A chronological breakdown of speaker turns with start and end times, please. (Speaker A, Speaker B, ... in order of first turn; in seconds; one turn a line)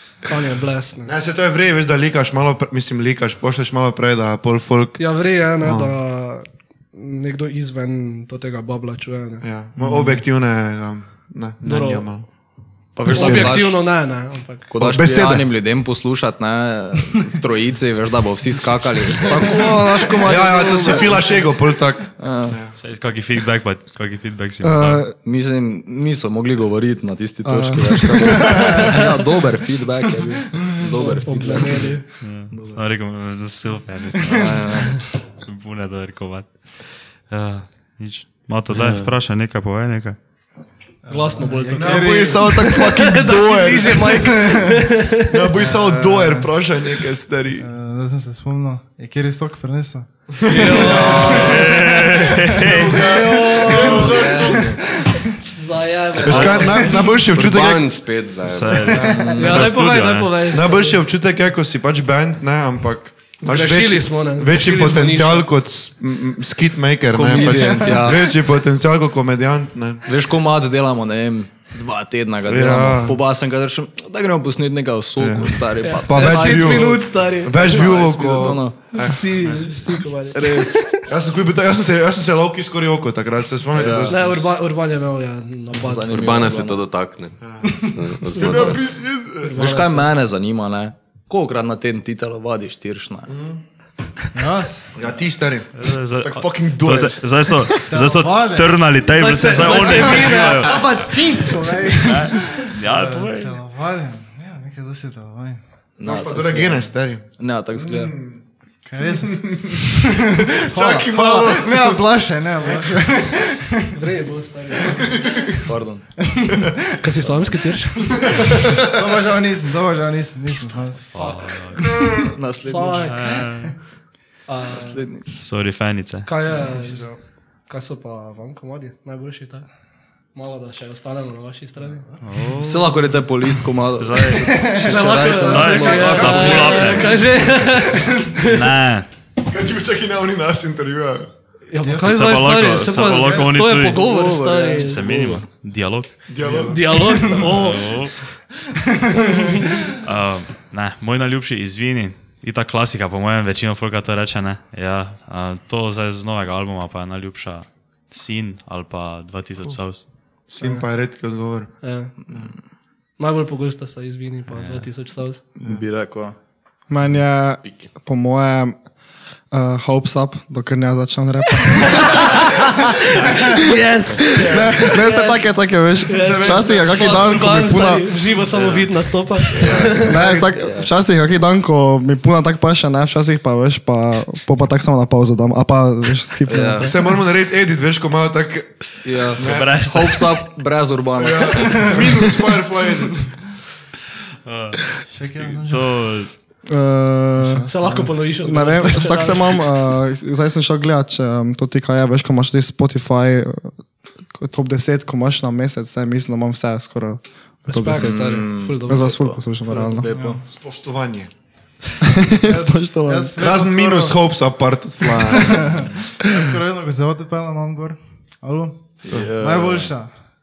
Speaker A: 0.2-1.1
Speaker B: 1.1-6.0
Speaker A: 5.0-9.4
Speaker B: 9.4-12.3
Speaker A: 11.6-12.1
Speaker C: 13.0-13.9
Speaker B: 13.1-13.7
Speaker A: 13.1-14.7
Speaker C: 14.7-21.3
Speaker B: 14.8-15.5
Speaker A: 19.3-21.5
Speaker B: 20.2-22.7
Speaker C: 22.2-22.6
Speaker D: 22.7-25.1
Speaker E: 24.6-25.1
Speaker C: 25.1-32.8
Speaker E: 27.4-28.5
Speaker F: 28.4-29.0
Speaker A: 28.6-29.1
Speaker F: 30.5-31.2
Speaker A: 31.2-32.0
Speaker D: 32.2-40.2
Speaker F: 34.2-35.0
Speaker C: 34.3-34.9
Speaker G: 38.8-39.1
Speaker F: 41.0-42.7
Speaker A: 41.1-45.5
Speaker B: 41.8-44.5
Speaker F: 43.9-44.9
Speaker B: 45.3-47.7
Speaker F: 45.5-46.6
Speaker F: 47.6-54.0
Speaker B: 50.4-51.6
Speaker A: 50.5-51.8
Speaker G: 50.9-51.5
Speaker D: 51.1-53.1
Speaker A: 52.6-54.6
Speaker B: 52.6-54.8
Speaker C: 53.7-54.8
Speaker F: 54.8-55.3
Speaker A: 55.5-57.1
Speaker B: 56.2-57.9
Speaker D: 56.2-56.9
Speaker G: 57.2-59.1
Speaker D: 58.5-60.4
Speaker F: 58.9-59.6
Speaker B: 59.0-59.7
Speaker A: 59.4-61.0
Speaker B: 60.5-70.0
Speaker A: 63.4-65.5
Speaker C: 67.1-68.3
Speaker C: 70.0-77.0
Speaker B: 72.5-73.2
Speaker B: 75.2-79.8
Speaker A: 75.8-77.9
Speaker C: 77.6-79.0
Speaker A: 78.9-81.1
Speaker C: 80.3-80.9
Speaker B: 81.1-84.4
Speaker C: 83.7-84.3
Speaker A: 84.1-86.4
Speaker C: 85.8-86.8
Speaker G: 86.1-88.8
Speaker B: 87.4-87.8
Speaker B: 88.3-89.7
Speaker A: 88.4-88.8
Speaker A: 89.4-90.1
Speaker C: 89.5-93.3
Speaker B: 93.3-93.6
Speaker F: 94.3-94.9
Speaker B: 95.0-97.8
Speaker D: 95.8-101.0
Speaker F: 97.9-98.9
Speaker A: 99.1-100.8
Speaker F: 99.6-105.6
Speaker D: 102.0-103.6
Speaker C: 106.0-108.2
Speaker B: 106.0-108.4
Speaker F: 108.8-114.0
Speaker B: 109.1-109.9
Speaker B: 110.6-112.0
Speaker A: 113.9-115.1
Speaker B: 115.1-115.6
Speaker C: 115.7-116.1
Speaker F: 116.2-116.9
Speaker A: 117.0-118.2
Speaker B: 118.3-118.7
Speaker F: 118.4-121.5
Speaker D: 121.1-122.0
Speaker A: 121.2-121.8
Speaker C: 122.3-123.2
Speaker A: 122.7-123.4
Speaker D: 123.1-123.7
Speaker F: 123.5-123.7
Speaker A: 124.5-125.1
Speaker C: 124.7-125.3
Speaker D: 125.4-126.3
Speaker A: 126.3-129.7
Speaker F: 126.8-127.0
Speaker A: 130.3-132.1
Speaker F: 131.9-132.2
Speaker D: 132.2-133.0
Speaker C: 132.6-136.6
Speaker D: 134.0-137.3
Speaker F: 134.3-137.2
Speaker A: 134.8-138.6
Speaker G: 135.9-136.2
Speaker B: 136.2-136.9
Speaker D: 138.4-139.1
Speaker B: 139.5-141.3
Speaker A: 141.7-145.1
Speaker F: 141.8-142.3
Speaker D: 142.0-144.1
Speaker C: 143.9-145.4
Speaker D: 144.8-146.1
Speaker B: 146.3-147.0
Speaker F: 146.4-147.5
Speaker A: 146.7-148.0
Speaker D: 147.4-148.2
Speaker F: 148.9-149.6
Speaker A: 149.2-149.7
Speaker D: 149.9-160.1
Speaker B: 160.5-161.7
Speaker A: 161.8-162.1
Speaker C: 162.3-162.6
Speaker A: 163.2-165.4
Speaker D: 164.5-164.9
Speaker C: 165.6-166.4
Speaker E: 166.9-168.8
Speaker G: 167.6-167.9
Speaker E: 169.5-172.5
Speaker A: 171.8-175.5
Speaker E: 173.2-173.6
Speaker E: 174.2-178.2
Speaker B: 174.4-174.9
Speaker A: 176.1-180.4
Speaker B: 176.2-177.4
Speaker C: 179.5-180.9
Speaker E: 180.0-186.9
Speaker C: 186.5-186.9
Speaker B: 186.8-189.8
Speaker C: 189.0-192.0
Speaker D: 189.4-190.4
Speaker B: 191.2-193.3
Speaker F: 191.6-192.1
Speaker D: 194.4-196.3
Speaker F: 195.1-196.1
Speaker E: 196.7-203.8
Speaker A: 197.7-199.7
Speaker E: 204.3-210.1
Speaker A: 207.7-210.0
Speaker C: 207.9-210.4
Speaker F: 210.1-210.4
Speaker B: 210.4-211.3
Speaker E: 212.0-213.4
Speaker F: 212.4-214.3
Speaker B: 213.4-215.9
Speaker F: 215.1-220.2
Speaker C: 219.0-219.9